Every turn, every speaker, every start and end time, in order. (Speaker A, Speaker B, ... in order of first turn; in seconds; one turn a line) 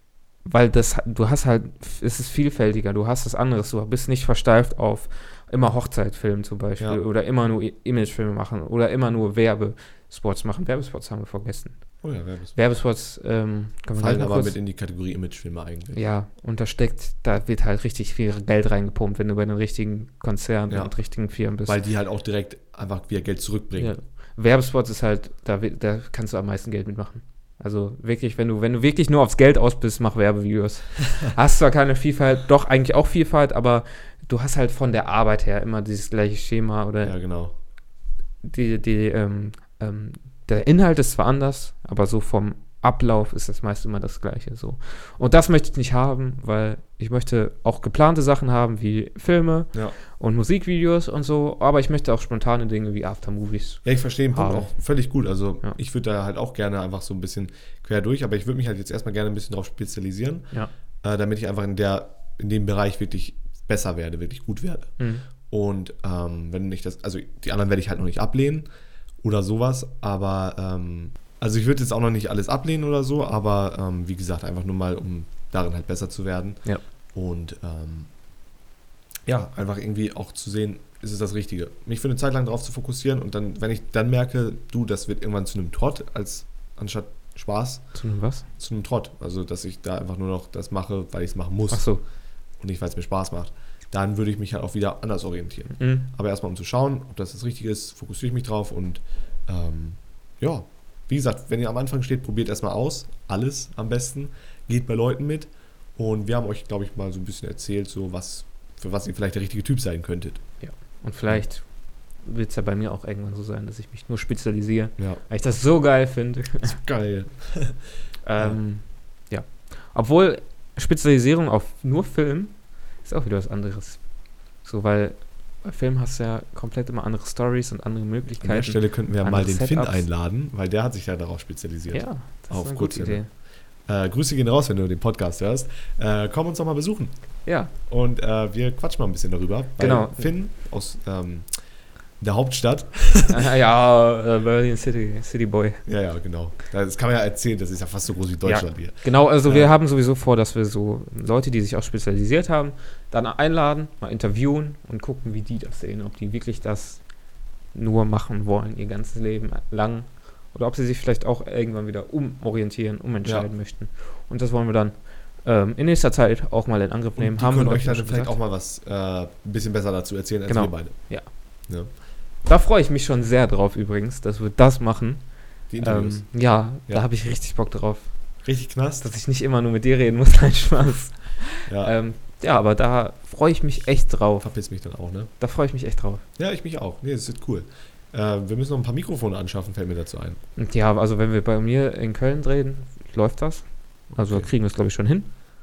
Speaker A: 0.5-11.8
Speaker B: 12.0-12.8
Speaker A: 12.5-14.6
Speaker B: 14.0-16.0
Speaker A: 15.9-21.8
Speaker B: 20.7-20.9
Speaker B: 21.6-23.9
Speaker A: 23.8-37.1
Speaker B: 37.0-37.5
Speaker A: 38.4-54.7
Speaker B: 53.8-60.5
Speaker B: 61.0-64.9
Speaker A: 65.0-65.3
Speaker B: 65.5-68.7
Speaker B: 69.2-76.6
Speaker B: 77.1-78.1
Speaker B: 79.3-87.8
Speaker A: 87.9-88.5
Speaker B: 88.6-91.9
Speaker A: 91.7-92.0
Speaker B: 92.6-110.4
Speaker A: 95.7-96.1
Speaker A: 110.6-111.7
Speaker A: 112.2-116.8
Speaker B: 116.6-117.8
Speaker A: 118.2-124.0
Speaker A: 124.6-130.1
Speaker B: 128.4-133.2
Speaker A: 131.9-133.3
Speaker B: 133.9-137.1
Speaker A: 137.4-137.7
Speaker B: 137.9-141.5
Speaker A: 139.8-140.3
Speaker B: 142.2-143.4
Speaker A: 143.3-145.8
Speaker B: 145.9-149.7
Speaker A: 148.4-157.0
Speaker A: 157.7-168.3
Speaker B: 167.2-171.9
Speaker A: 170.5-171.3
Speaker A: 172.4-175.2
Speaker B: 175.7-176.3
Speaker A: 175.8-178.2
Speaker B: 178.4-179.1
Speaker A: 179.0-184.5
Speaker B: 181.7-182.0
Speaker B: 184.4-185.3
Speaker A: 185.4-186.2
Speaker B: 186.4-190.4
Speaker A: 190.6-195.3
Speaker B: 194.1-194.5